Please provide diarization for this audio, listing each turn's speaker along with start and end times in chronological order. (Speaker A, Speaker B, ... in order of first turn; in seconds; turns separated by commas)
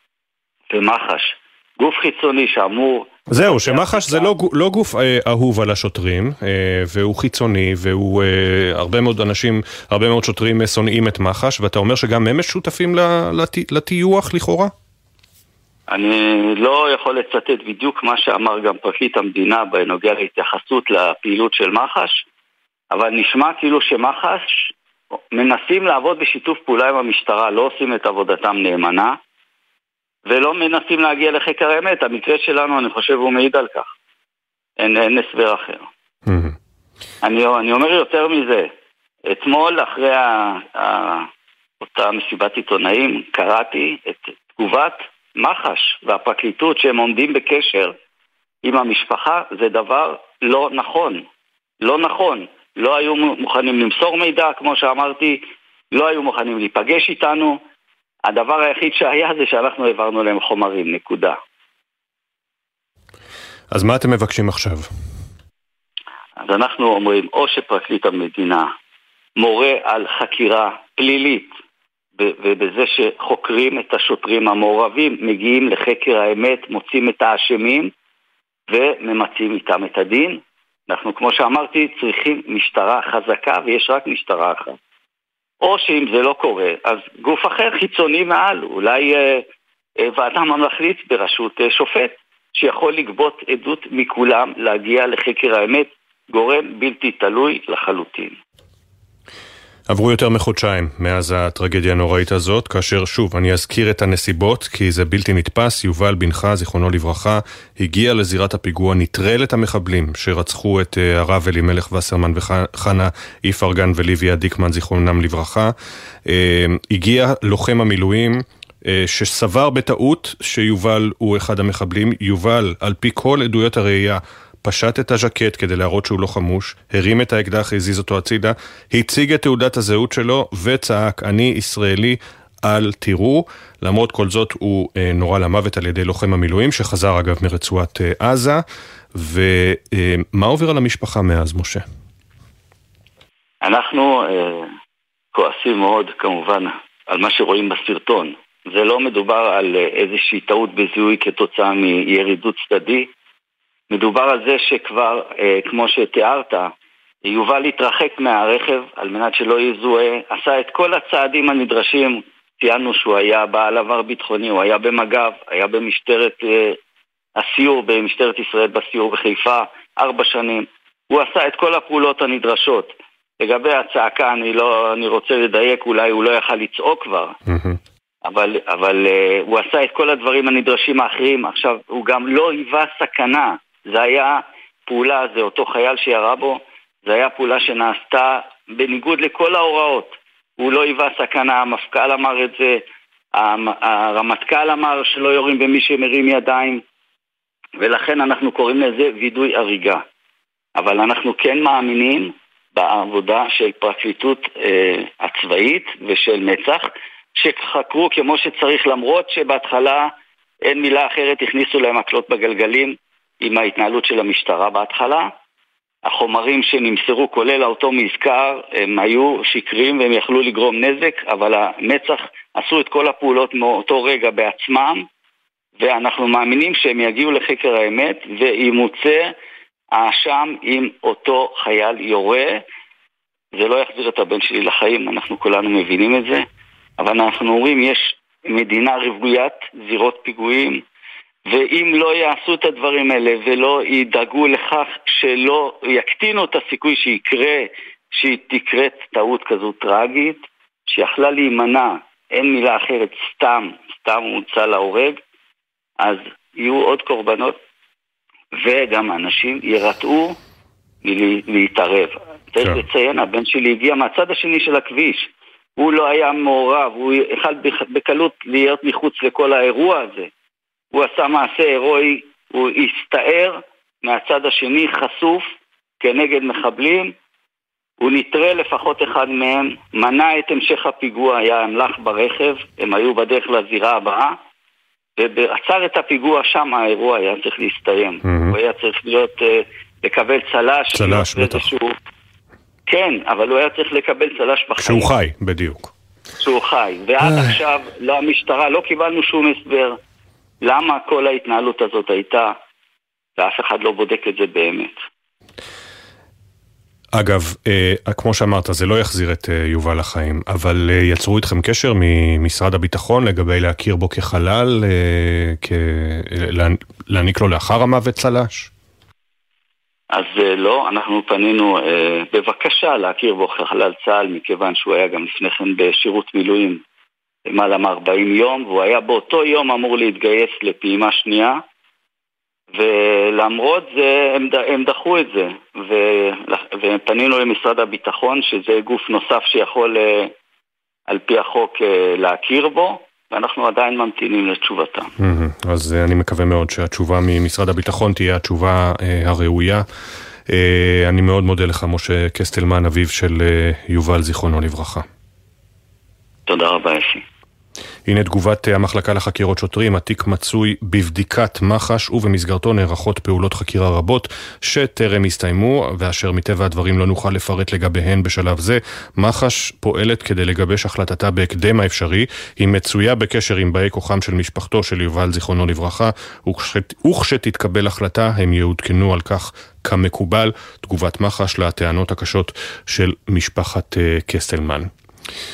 Speaker A: 0.7-4.3, Speaker B: 3.3-14.7, Speaker A: 15.9-22.2, Speaker A: 22.9-24.7, Speaker A: 25.4-29.2, Speaker A: 30.3-33.9, Speaker A: 34.8-35.9, Speaker B: 36.3-36.5, Speaker A: 37.2-38.7, Speaker A: 39.3-41.2, Speaker A: 41.8-48.0, Speaker A: 48.6-51.2, Speaker A: 51.8-57.6, Speaker A: 58.3-61.4, Speaker B: 63.7-64.9, Speaker A: 66.5-68.7, Speaker A: 69.4-71.6, Speaker A: 72.2-77.9, Speaker A: 78.7-84.8, Speaker A: 85.6-89.4, Speaker A: 90.0-98.3, Speaker B: 99.9-115.7, Speaker B: 116.3-138.6, Speaker B: 139.2-141.8, Speaker A: 143.6-144.7, Speaker A: 145.3-153.1, Speaker A: 153.9-156.7, Speaker A: 157.3-166.8, Speaker A: 167.4-177.3, Speaker B: 177.5-177.8, Speaker A: 178.3-192.8, Speaker A: 193.4-196.8, Speaker A: 197.8-200.0, Speaker A: 200.8-210.1, Speaker A: 210.7-215.3, Speaker A: 216.1-225.1, Speaker A: 225.8-229.3, Speaker A: 230.0-232.6, Speaker A: 233.6-236.5, Speaker A: 237.0-240.8, Speaker A: 241.5-255.2, Speaker A: 256.0-257.6, Speaker A: 258.6-260.4, Speaker A: 261.0-265.3, Speaker A: 265.8-270.3, Speaker A: 270.9-275.5, Speaker A: 276.0-277.1, Speaker A: 278.0-284.4, Speaker A: 285.2-292.0, Speaker B: 288.3-288.6, Speaker B: 290.9-291.7, Speaker A: 292.9-295.1, Speaker B: 294.8-295.9, Speaker A: 296.4-300.0, Speaker B: 297.2-297.6, Speaker A: 300.6-302.5, Speaker A: 303.4-304.9, Speaker B: 307.1-318.7, Speaker A: 320.1-326.8, Speaker A: 327.5-331.6, Speaker A: 332.8-340.3, Speaker A: 341.1-345.1, Speaker B: 345.2-349.9, Speaker B: 350.5-355.1, Speaker A: 356.5-357.2, Speaker B: 358.1-384.9